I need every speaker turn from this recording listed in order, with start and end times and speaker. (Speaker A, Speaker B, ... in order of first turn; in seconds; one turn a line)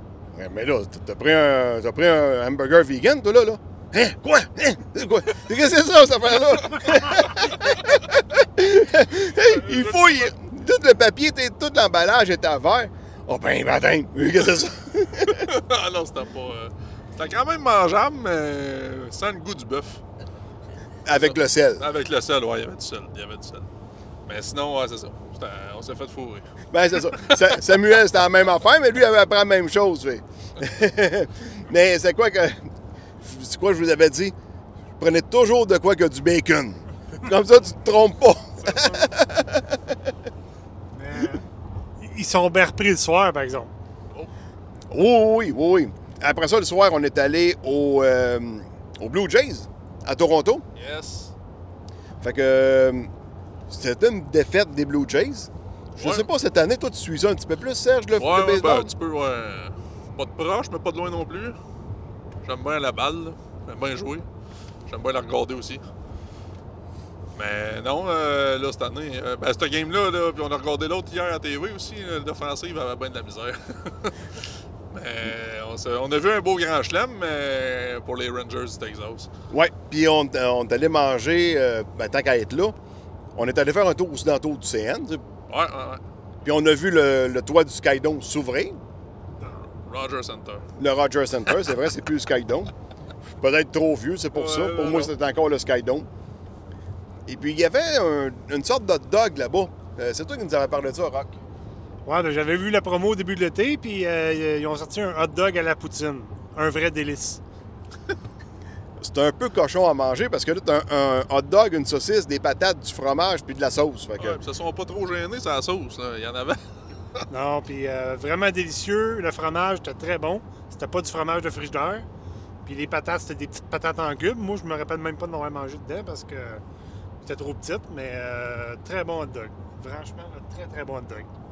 Speaker A: 0.3-15.5
Speaker B: 9.3-10.3
Speaker B: 15.3-20.0
Speaker A: 21.0-21.8
Speaker B: 21.1-23.7
Speaker B: 24.2-26.4
Speaker A: 26.7-32.6
Speaker B: 26.9-27.6
Speaker A: 33.2-34.3
Speaker A: 35.0-40.0
Speaker B: 38.6-39.1
Speaker C: 40.9-41.4
Speaker C: 42.0-43.7
Speaker A: 44.9-50.6
Speaker B: 50.8-51.3
Speaker A: 52.2-53.1
Speaker A: 53.7-58.9
Speaker B: 56.0-56.2
Speaker B: 58.2-61.6
Speaker B: 62.4-64.3
Speaker B: 64.9-65.8
Speaker B: 67.3-79.3
Speaker A: 79.5-82.7
Speaker A: 83.3-85.2
Speaker B: 85.5-86.0
Speaker A: 86.4-88.8
Speaker C: 89.4-89.7
Speaker B: 89.8-90.7
Speaker A: 90.8-92.7
Speaker A: 93.4-96.1
Speaker B: 94.3-95.1
Speaker A: 97.2-101.3
Speaker C: 102.0-107.4
Speaker A: 109.0-114.4
Speaker B: 114.2-117.2
Speaker C: 117.3-122.0
Speaker C: 122.6-126.6
Speaker C: 127.2-131.3